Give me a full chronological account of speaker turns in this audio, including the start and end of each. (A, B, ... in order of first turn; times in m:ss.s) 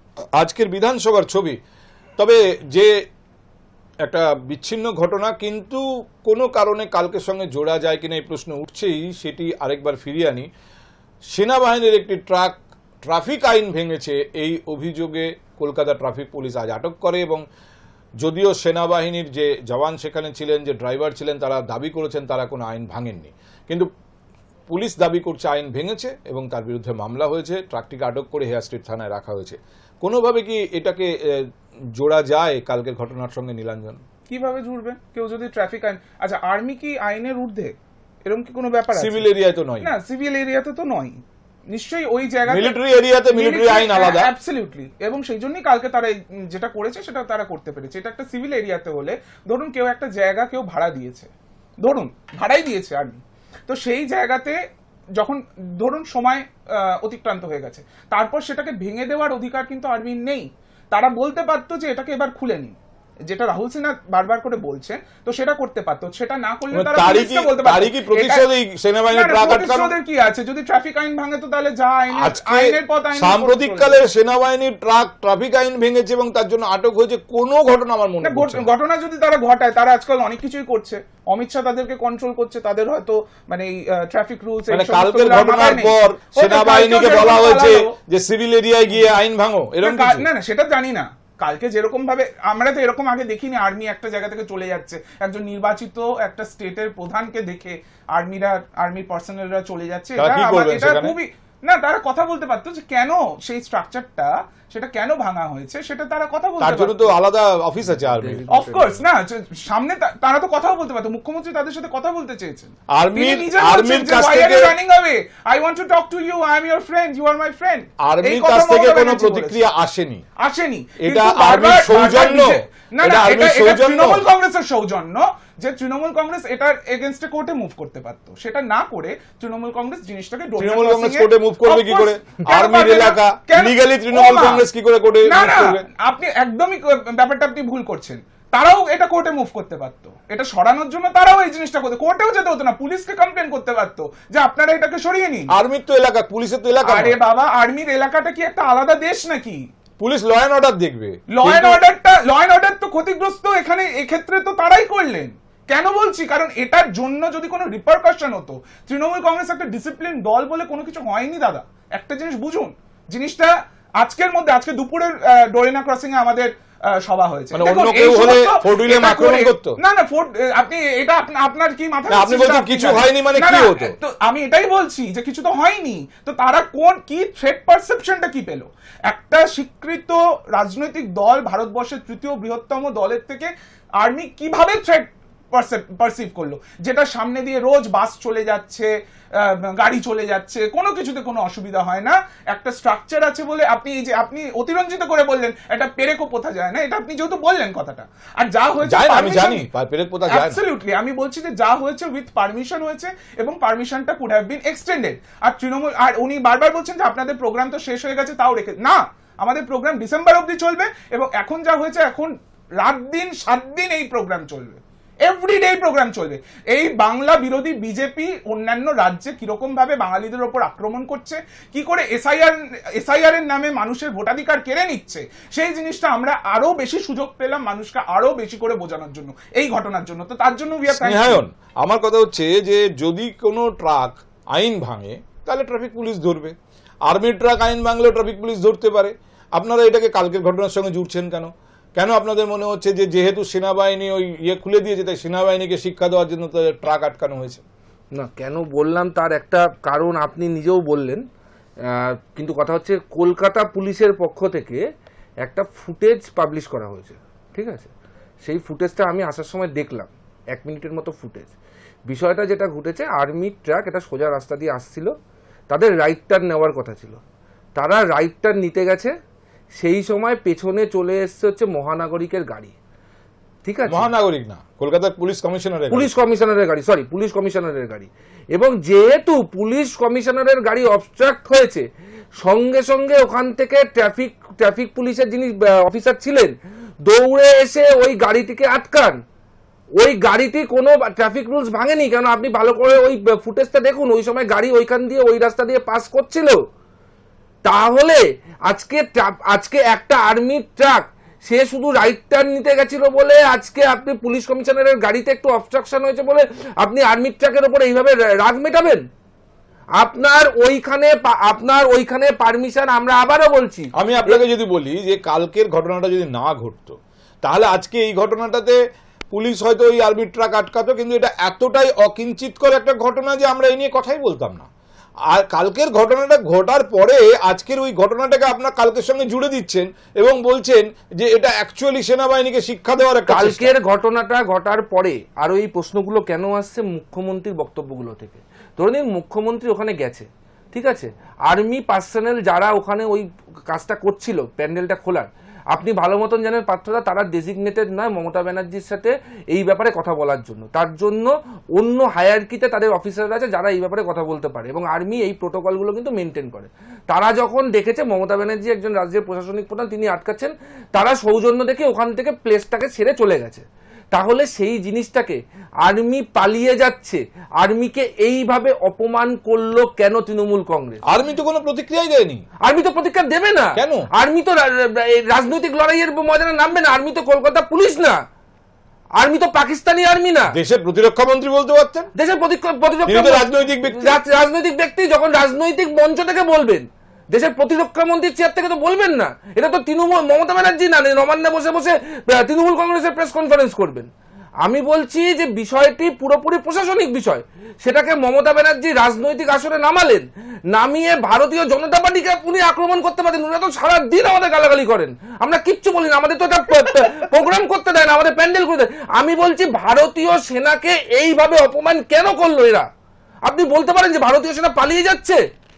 0:00.3-0:01.6 A
0:02.2-0:02.9 A
0:04.0-0:10.5 A
0:11.3-0:17.4 A
0:18.2-0:23.9 A
0:24.7-0:34.0 A
0:34.3-0:39.2 B
0:39.0-0:39.9 A
0:39.8-0:42.8 B
0:42.5-0:44.3 A
0:43.3-0:51.3 B
0:51.8-0:54.6 B
0:55.2-1:02.7 B
1:03.3-1:08.4 B
1:06.7-1:09.9 A
1:09.1-1:14.0 B
1:12.1-1:18.7 A
1:18.2-1:27.9 B
1:24.7-1:30.3 A
1:29.8-1:47.1 B
1:40.2-1:41.2 A
1:46.6-1:48.7 A
1:48.0-1:49.0 C
1:48.5-1:59.6 B
1:52.9-1:54.7 A
1:58.0-2:00.2 A
2:00.4-2:14.6 B
2:01.0-2:04.2 A
2:10.6-2:15.8 A
2:15.3-2:25.5 B
2:25.5-2:27.2 A
2:26.8-2:29.6 B
2:30.0-2:31.8 A
2:31.3-3:19.6 B
2:47.5-2:49.8 A
2:52.1-2:53.9 A
3:18.8-3:20.6 A
3:20.3-3:51.4 B
3:50.9-3:56.5 A
3:57.1-4:07.6 A
4:08.1-4:11.2 C
4:11.8-4:14.8 C
4:15.4-4:17.9 C
4:18.4-4:21.5 C
4:22.1-4:25.1 C
4:25.7-4:27.2 C
4:27.8-4:29.1 C
4:29.8-4:32.7 C
4:33.6-4:34.1 C
4:33.9-4:36.1 A
4:35.9-4:41.8 C
4:42.4-4:49.2 C
4:50.0-4:56.6 C
4:57.6-5:09.0 C
5:10.0-5:14.4 C
5:14.0-5:18.8 A
5:19.3-5:24.7 A
5:25.3-5:33.7 A
5:33.3-6:11.0 C
6:11.1-6:12.4 A
6:12.6-6:18.2 C
6:13.8-6:14.0 A
6:19.2-6:20.5 C
6:20.5-6:22.1 A
6:22.2-6:34.1 C
6:23.1-6:24.2 A
6:34.6-6:52.9 C
6:53.5-6:55.4 C